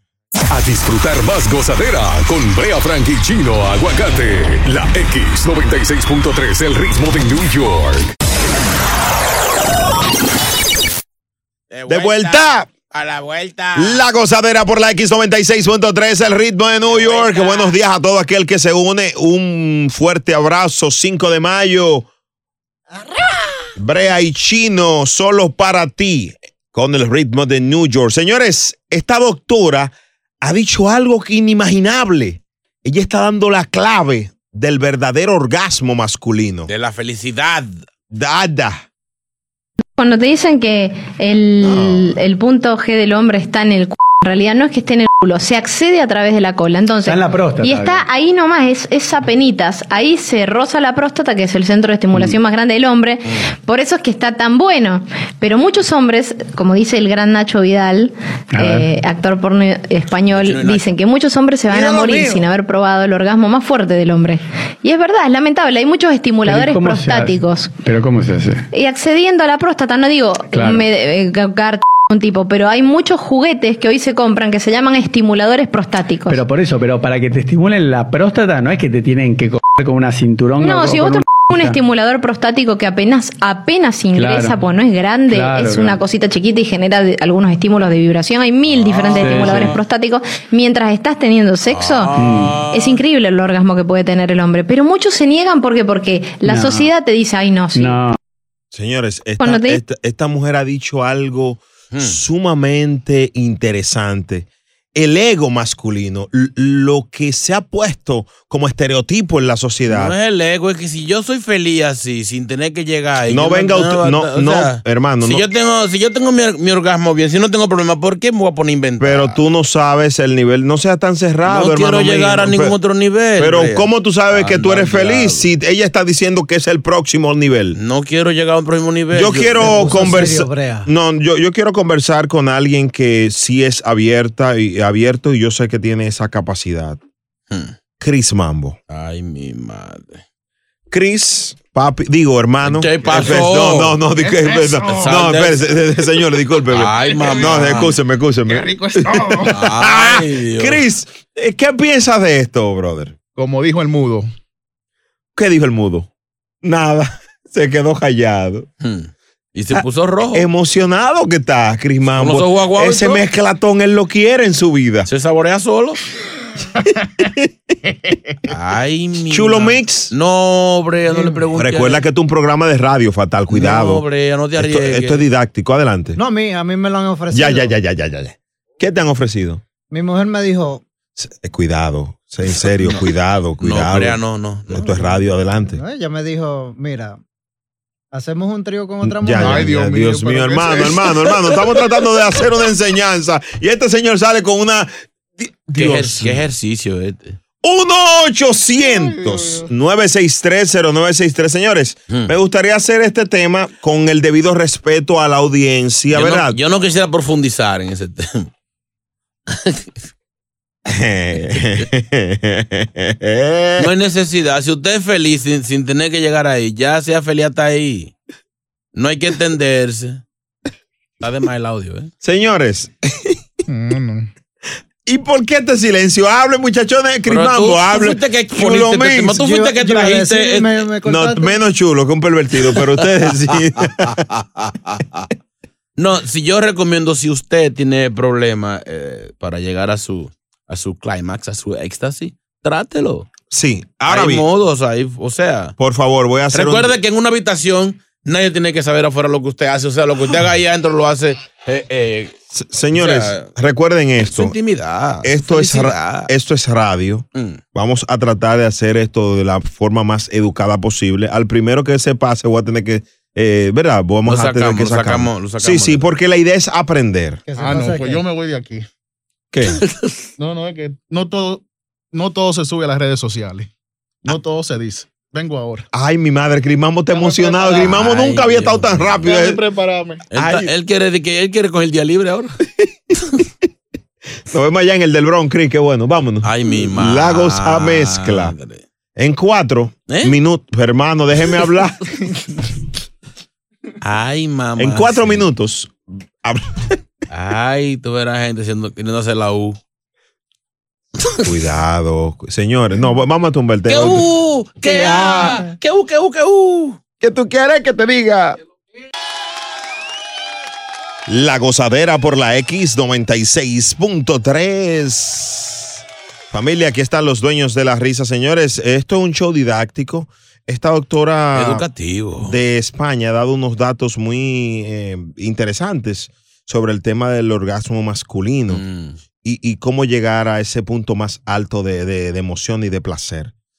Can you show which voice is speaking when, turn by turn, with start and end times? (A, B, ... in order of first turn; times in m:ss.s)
0:00.5-0:08.1 A
0:11.7-0:14.1 B
0:11.9-0:12.7 C
0:13.8-0:22.1 C
0:16.9-0:17.8 B
0:23.8-0:36.7 C
0:36.7-0:37.8 B
0:38.1-0:38.8 C
0:40.0-1:07.7 D
0:41.6-0:42.2 C
0:47.0-0:48.1 E
0:58.5-0:58.9 E
1:00.3-1:00.9 B
1:01.7-1:02.4 F
1:06.4-1:08.6 E
1:08.7-1:16.4 D
1:10.5-1:10.8 E
1:16.3-1:21.8 E
1:20.6-1:38.1 D
1:24.1-1:24.7 E
1:25.3-1:26.0 E
1:28.7-1:29.8 B
1:29.2-1:29.7 E
1:31.6-1:33.0 B
1:32.2-1:32.5 E
1:36.4-1:36.9 E
1:37.7-1:38.2 E
1:38.7-1:50.2 C
1:39.4-1:39.8 D
1:41.9-1:42.2 B
1:49.9-1:59.4 B
1:53.3-1:55.5 C
1:59.0-2:02.8 C
2:01.5-2:05.5 B
2:03.4-2:07.8 C
2:07.8-2:10.2 B
2:09.1-2:17.0 C
2:09.6-2:10.9 F
2:18.0-2:18.8 C
2:18.9-2:20.2 B
2:20.9-2:33.2 C
2:22.6-2:24.0 B
2:24.2-2:24.9 G
2:24.9-2:25.7 B
2:26.7-2:28.0 B
2:28.5-2:29.5 G
2:29.5-2:30.8 B
2:33.4-2:34.3 G
2:35.4-2:36.1 C
2:36.6-2:38.7 C
2:38.8-2:40.5 B
2:40.3-2:45.1 C
2:42.2-2:43.2 B
2:45.1-2:46.0 B
2:46.8-2:47.5 C
2:48.5-2:52.0 B
2:49.3-2:50.1 C
2:51.1-2:51.4 F
2:51.5-2:54.0 C
2:53.5-2:55.2 B
2:54.6-2:56.2 C
2:56.2-2:57.7 F
2:57.3-2:59.6 C
2:59.9-3:00.8 F
3:01.2-3:05.8 C
3:02.5-3:03.0 B
3:03.6-3:05.1 B
3:04.8-3:07.2 F
3:08.1-3:09.7 F
3:09.0-3:16.4 C
3:09.4-3:11.3 G
3:15.8-3:17.4 B
3:17.6-3:26.6 C
3:18.8-3:19.7 G
3:26.1-3:28.5 B
3:30.9-3:33.9 C
3:33.8-3:38.1 B
3:39.0-3:40.2 B
3:41.2-3:42.1 B
3:42.2-3:43.4 C
3:43.7-3:44.3 F
3:45.1-3:49.4 C
3:47.3-3:50.8 B
3:49.3-3:51.6 F
3:51.0-3:54.2 C
3:56.0-4:03.3 B
4:03.5-4:04.4 C
4:04.1-4:05.8 B
4:05.8-4:07.0 C
4:06.5-4:12.4 B
4:12.5-4:14.6 C
4:12.9-4:13.5 B
4:14.2-4:16.3 B
4:15.2-4:27.4 C
4:24.3-4:26.1 B
4:27.5-4:28.3 F
4:27.6-4:28.8 G
4:29.5-4:29.8 C
4:30.4-4:31.6 G
4:32.1-4:33.7 G
4:34.2-4:35.9 G
4:35.9-4:39.6 C
4:37.1-4:37.9 G
4:37.7-4:39.3 B
4:39.2-4:40.2 G
4:40.3-4:42.6 B
4:40.3-4:40.7 C
4:44.5-4:48.5 C
4:46.4-4:48.8 B
4:49.2-4:52.1 C
4:50.1-4:50.4 B
4:54.0-4:55.4 B
4:54.8-4:57.0 C
4:57.3-4:59.8 B
5:01.4-5:04.3 C
5:03.9-5:07.0 B
5:04.8-5:05.7 C
5:07.2-5:08.6 C
5:11.3-5:21.8 C
5:21.6-5:22.6 B
5:22.4-5:28.8 C
5:28.7-5:29.2 B
5:29.4-5:33.5 C